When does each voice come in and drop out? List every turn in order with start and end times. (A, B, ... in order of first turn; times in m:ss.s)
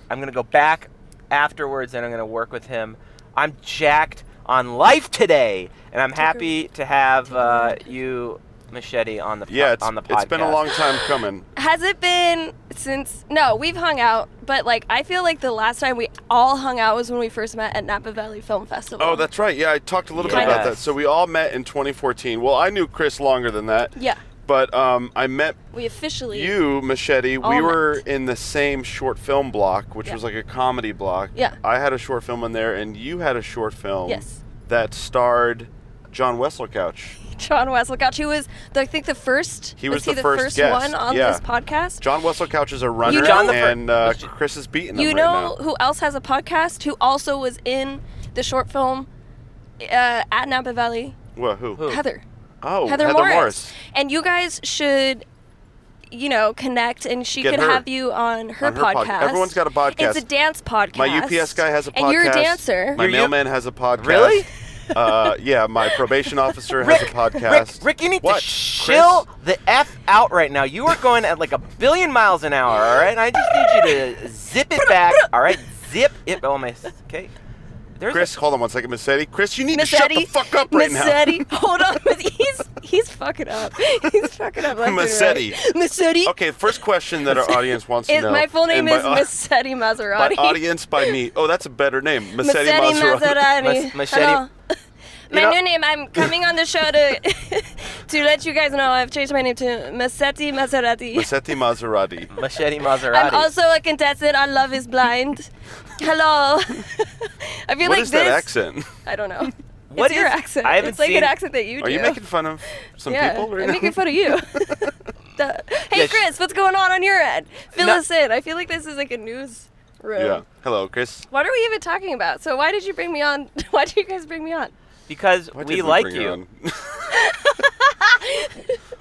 0:00.1-0:10.7 A
0:06.2-0:06.5 B
0:07.3-0:07.9 B
0:09.5-0:11.5 C
0:11.6-0:19.3 B
0:19.0-0:24.0 C
0:20.2-0:20.9 A
0:20.3-0:20.8 B
0:24.0-0:24.2 B
0:24.5-0:25.6 C
0:25.7-0:26.6 B
0:26.3-0:37.2 C
0:27.4-0:28.0 B
0:34.1-0:34.4 B
0:37.3-0:42.0 B
0:39.8-0:41.4 C
0:42.0-0:45.6 C
0:43.0-0:43.6 B
0:43.0-0:44.3 A
0:44.9-0:49.1 B
0:49.8-0:51.2 B
0:51.4-0:51.9 C
0:51.8-0:52.2 B
0:52.6-0:53.7 C
0:52.9-0:55.2 B
0:56.1-1:03.0 B
0:57.4-0:57.8 C
0:58.6-1:00.2 C
1:00.9-1:09.2 C
1:03.0-1:03.4 A
1:04.0-1:04.5 A
1:06.8-1:17.3 A
1:13.5-1:14.0 B
1:14.8-1:15.6 B
1:18.0-1:18.3 A
1:18.1-1:21.5 C
1:19.7-1:31.2 B
1:24.7-1:25.6 C
1:26.2-1:29.3 C
1:30.2-1:33.5 C
1:32.4-1:34.8 B
1:33.6-1:34.4 A
1:35.3-1:41.3 B
1:35.3-1:35.6 A
1:41.1-1:42.3 C
1:42.3-1:43.5 A
1:43.1-1:48.5 B
1:47.8-1:48.9 C
1:49.0-1:52.2 B
1:49.9-1:51.3 A
1:51.8-1:54.9 C
1:52.8-2:00.4 B
1:55.9-1:56.2 A
2:00.2-2:01.3 C
2:01.3-2:04.7 B
2:05.1-2:06.4 A
2:05.6-2:07.2 C
2:07.1-2:08.8 B